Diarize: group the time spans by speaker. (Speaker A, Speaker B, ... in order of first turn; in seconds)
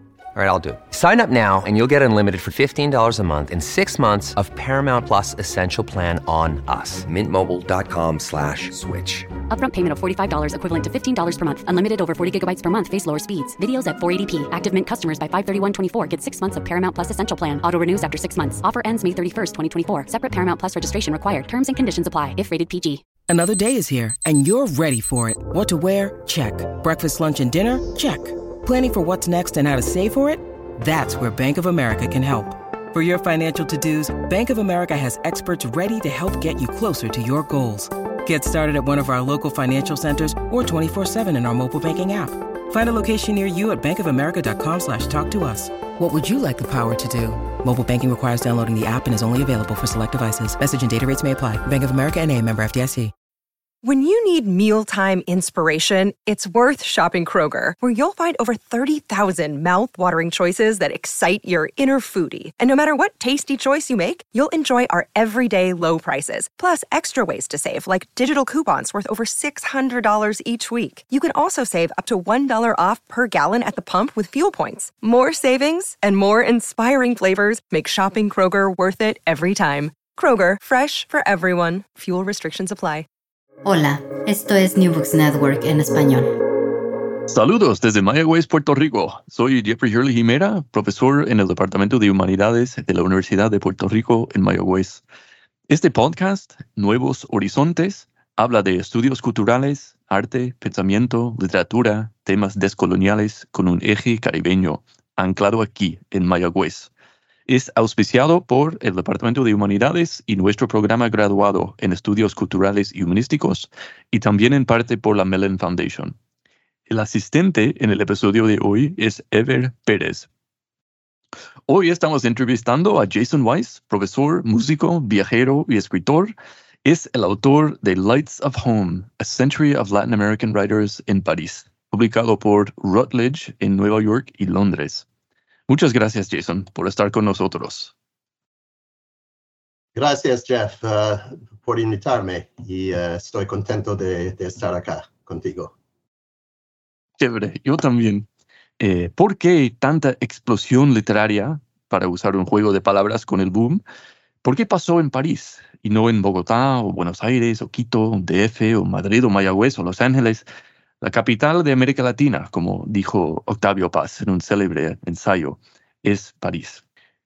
Speaker A: 0.3-9.3
Speaker B: 9.5-23.0
Speaker C: 23.3-53.1
Speaker D: 53.8-83.0
Speaker E: 83.6-86.3
Speaker F: 87.3-95.0, 95.7-106.9, 107.5-116.1, 116.9-120.3, 121.7-126.3, 126.8-135.1, 135.7-137.9, 147.2-148.3, 148.8-153.8, 154.4-160.4, 161.0-166.8
Speaker G: 139.9-145.7